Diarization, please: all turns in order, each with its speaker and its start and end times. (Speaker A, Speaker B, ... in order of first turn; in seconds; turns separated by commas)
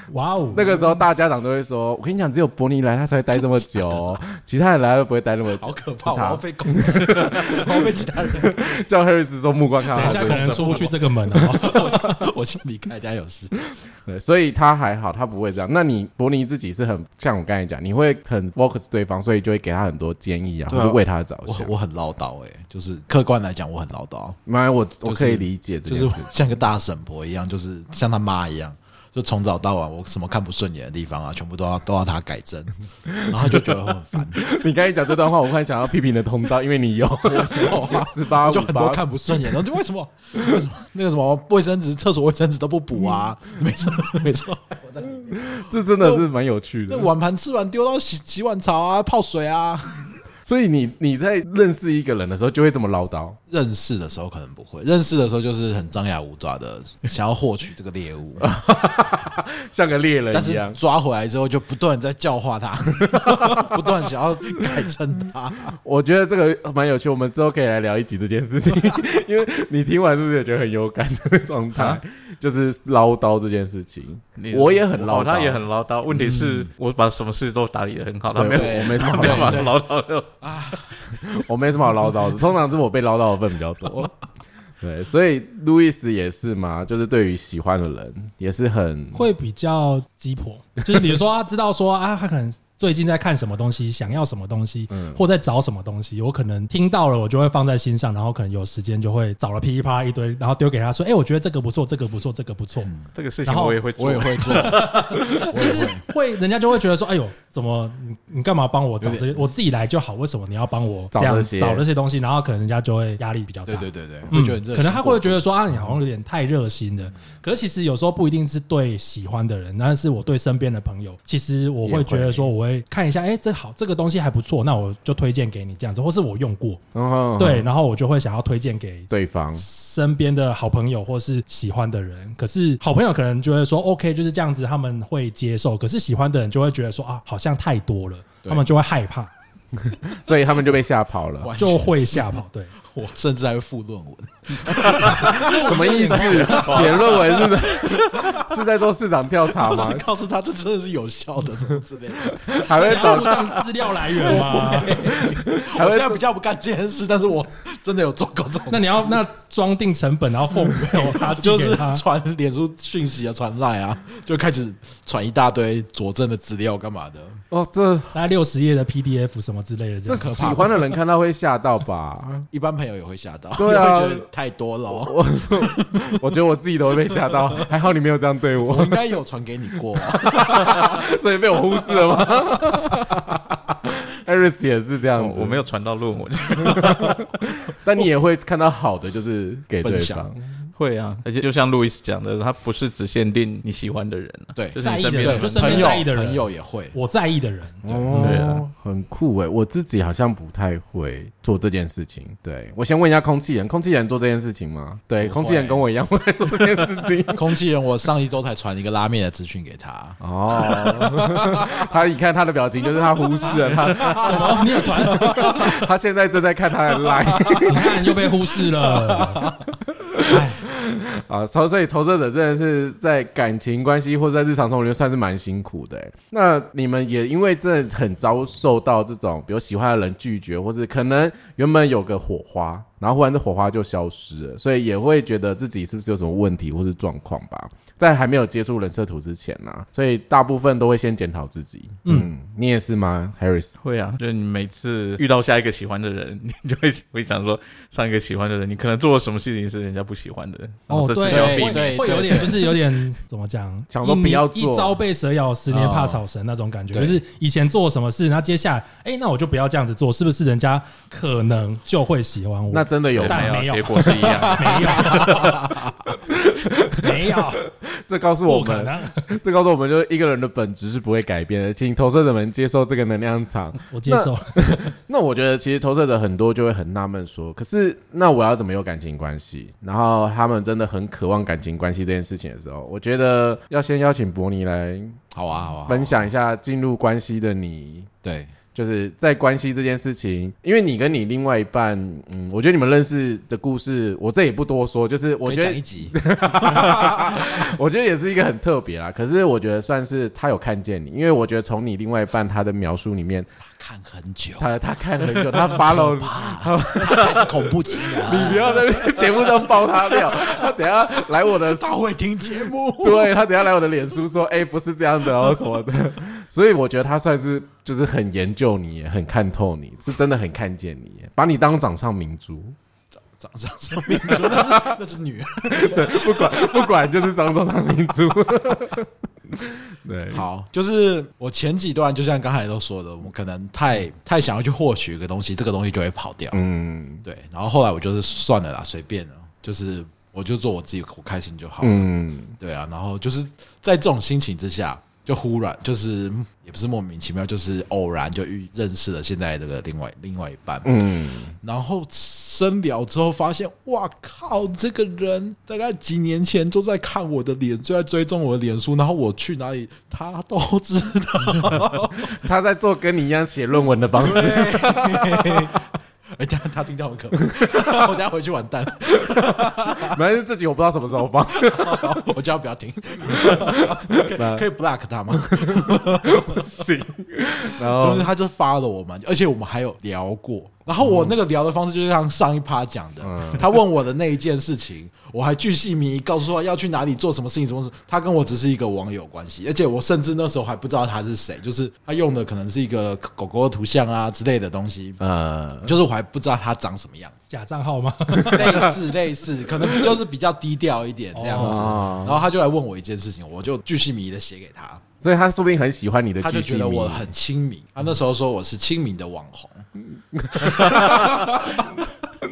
Speaker A: 0.1-0.6, Speaker B: 0.5-10.9, Speaker C: 0.6-1.0, Speaker C: 3.3-4.2, Speaker C: 5.6-8.7, Speaker C: 9.9-13.7, Speaker A: 9.9-12.1, Speaker B: 14.0-21.7, Speaker C: 20.7-24.4, Speaker B: 24.5-26.3, Speaker C: 25.0-34.5, Speaker B: 33.1-39.6, Speaker C: 37.2-46.2, Speaker B: 45.4-47.1, Speaker C: 46.9-50.2, Speaker B: 50.5-53.4, Speaker C: 53.5-58.5, Speaker B: 58.4-60.8, Speaker C: 60.3-65.8, Speaker B: 63.1-63.8, Speaker B: 65.8-75.6, Speaker D: 71.8-72.0, Speaker D: 74.4-80.9, Speaker C: 76.1-76.7, Speaker B: 78.3-79.7, Speaker C: 78.5-79.7, Speaker C: 80.4-81.1, Speaker B: 81.2-84.2, Speaker B: 84.8-89.3, Speaker A: 89.1-102.9, Speaker B: 94.9-95.2, Speaker C: 102.8-103.1, Speaker D: 103.1-105.3, Speaker A: 103.4-126.8, Speaker C: 104.0-104.9, Speaker C: 105.5-106.0, Speaker C: 109.0-109.4, Speaker B: 111.1-111.8, Speaker C: 113.6-115.4, Speaker B: 121.8-122.5, Speaker B: 126.9-127.7, Speaker A: 127.4-139.3, Speaker B: 129.1-129.6, Speaker B: 139.8-141.5, Speaker C: 141.4-148.5, Speaker A: 141.6-142.7, Speaker B: 145.0-150.2, Speaker A: 145.1-147.3, Speaker D: 146.7-146.9, Speaker C: 149.5-153.3, Speaker B: 152.4-153.6, Speaker A: 152.7-155.1, Speaker C: 154.0-159.2, Speaker B: 155.3-156.2, Speaker A: 158.7-162.0, Speaker C: 160.5-167.4, Speaker B: 167.5-168.1, Speaker A: 168.1-170.6, Speaker B: 170.0-172.5, Speaker C: 170.1-170.8, Speaker C: 172.5-176.0, Speaker B: 173.6-174.3, Speaker B: 174.9-179.0, Speaker C: 177.1-177.7, Speaker C: 178.7-181.0, Speaker B: 180.1-185.6, Speaker C: 181.9-182.8, Speaker D: 185.2-187.3, Speaker B: 186.6-190.4, Speaker C: 189.8-190.3, Speaker D: 190.8-195.9, Speaker C: 194.6-196.9, Speaker A: 194.8-198.0, Speaker B: 197.8-207.6, Speaker D: 198.1-198.6, Speaker C: 205.2-205.8, Speaker C: 207.3-211.8, Speaker B: 210.2-217.9, Speaker C: 213.4-215.8, Speaker A: 214.1-215.6, Speaker C: 217.0-218.0, Speaker A: 217.6-219.5, Speaker C: 218.6-219.7, Speaker B: 219.9-243.8, Speaker A: 242.0-242.3, Speaker D: 243.8-252.7, Speaker A: 250.9-265.6, Speaker C: 251.2-252.7, Speaker B: 253.9-254.9, Speaker C: 255.7-256.2, Speaker C: 256.9-257.2, Speaker B: 262.7-263.6, Speaker D: 263.1-265.3, Speaker C: 264.3-266.1, Speaker B: 266.2-285.2, Speaker A: 267.0-267.6, Speaker A: 268.5-269.3, Speaker A: 273.9-274.9, Speaker C: 285.3-286.2, Speaker B: 285.8-288.1, Speaker C: 288.2-288.6, Speaker B: 288.7-303.5, Speaker C: 295.4-297.6, Speaker C: 303.6-313.4, Speaker B: 304.6-311.9, Speaker B: 312.6-322.8, Speaker C: 323.3-327.0, Speaker B: 324.1-325.0, Speaker B: 325.7-330.4, Speaker C: 330.3-336.6, Speaker B: 336.5-337.2, Speaker C: 337.2-351.1, Speaker B: 341.8-342.6, Speaker B: 350.8-351.5, Speaker C: 351.6-362.3, Speaker B: 362.2-365.8, Speaker C: 364.2-370.2, Speaker B: 367.6-368.1, Speaker B: 370.0-372.2, Speaker C: 371.6-376.7, Speaker B: 373.2-374.6, Speaker B: 375.3-378.3, Speaker C: 377.8-395.2, Speaker B: 381.0-381.3, Speaker B: 383.2-383.7, Speaker B: 395.2-395.9, Speaker C: 395.8-397.3, Speaker A: 397.5-398.9, Speaker B: 398.5-398.8, Speaker C: 398.5-405.0, Speaker A: 401.3-402.1, Speaker B: 401.6-402.5, Speaker B: 405.2-407.3, Speaker C: 406.4-409.9, Speaker B: 410.1-411.8, Speaker C: 410.5-412.1